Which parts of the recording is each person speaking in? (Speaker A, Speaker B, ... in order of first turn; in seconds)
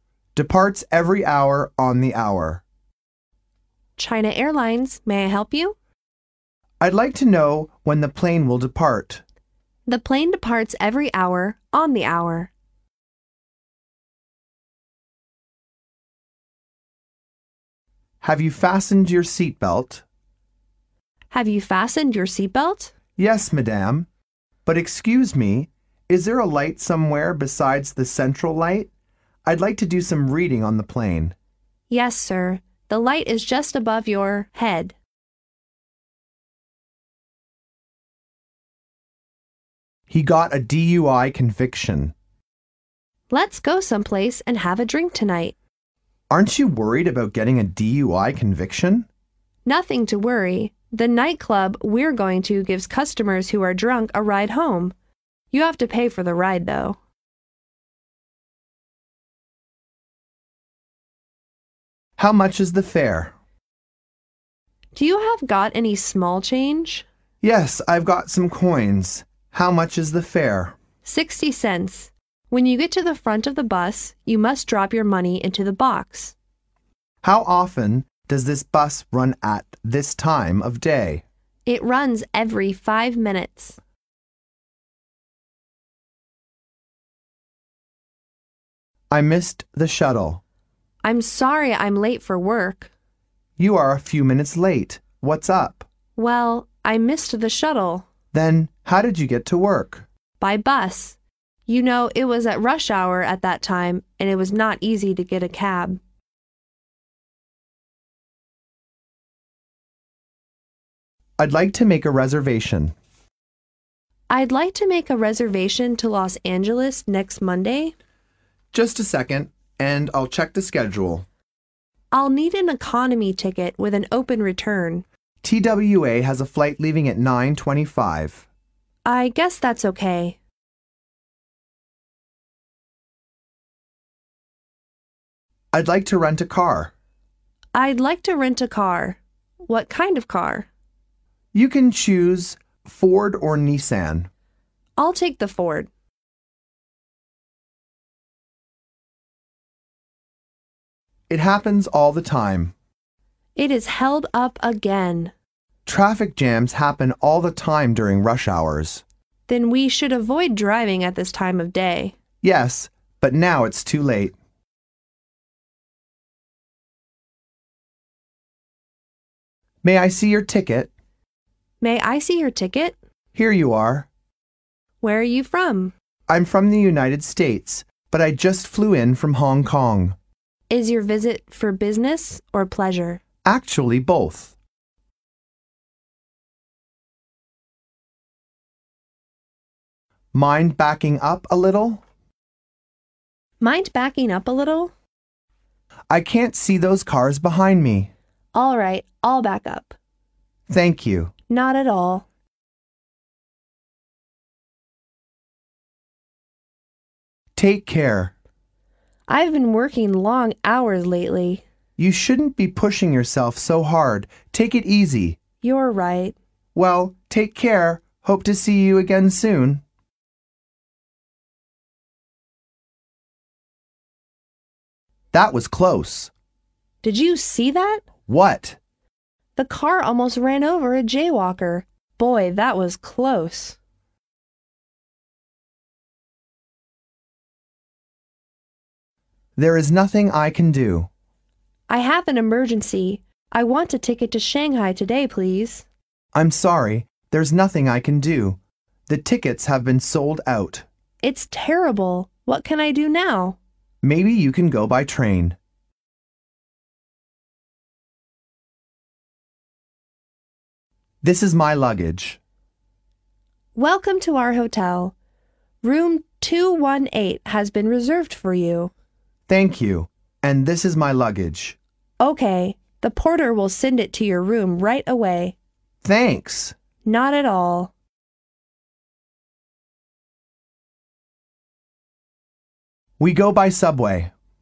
Speaker A: 0.3-2.6, 6.8-9.2, 18.2-20.0, 23.1-24.1, 24.6-28.9, 29.4-31.3, 40.1-42.1, 46.3-49.1, 62.2-63.3, 67.4-70.7, 77.2-81.2, 89.1-90.4, 93.6-95.9, 98.3-100.0, 111.4-112.9, 118.7-121.3, 125.4-128.4, 135.7-136.9, 141.5-144.3, 151.3-152.7, 155.8-159.0, 162.4-164.3, 169.8-170.9, 173.3-174.1, 176.3-180.2, 183.4-184.5, 190.3-192.0, 196.1-198.1, 200.7-201.3, 207.5-208.3, 212.0-215.4, 216.7-219.8, 225.3-226.3, 228.2-228.8, 239.6-241.1, 246.3-250.9, 254.0-255.6, 261.2-262.4, 269.5-271.8, 276.0-276.8, 283.2-284.3
Speaker B: 4.0-5.8, 9.9-12.5, 21.3-22.9, 31.9-35.0, 43.3-45.5, 49.6-54.9, 55.5-57.0, 64.9-67.0, 71.0-76.3, 81.7-83.8, 91.0-92.9, 96.2-98.1, 100.4-106.0, 114.3-117.9, 122.1-125.0, 129.0-130.4, 137.7-140.7, 145.0-145.9, 153.6-155.3, 159.5-162.2, 171.8-172.9, 175.0-175.9, 180.7-183.2, 193.6-194.9, 198.5-199.9, 201.5-202.2, 209.3-211.6, 215.6-216.3, 227.0-228.1, 229.6-233.8, 241.9-245.8, 251.2-253.6, 263.7-265.1, 265.8-268.9, 272.2-275.5, 277.0-277.9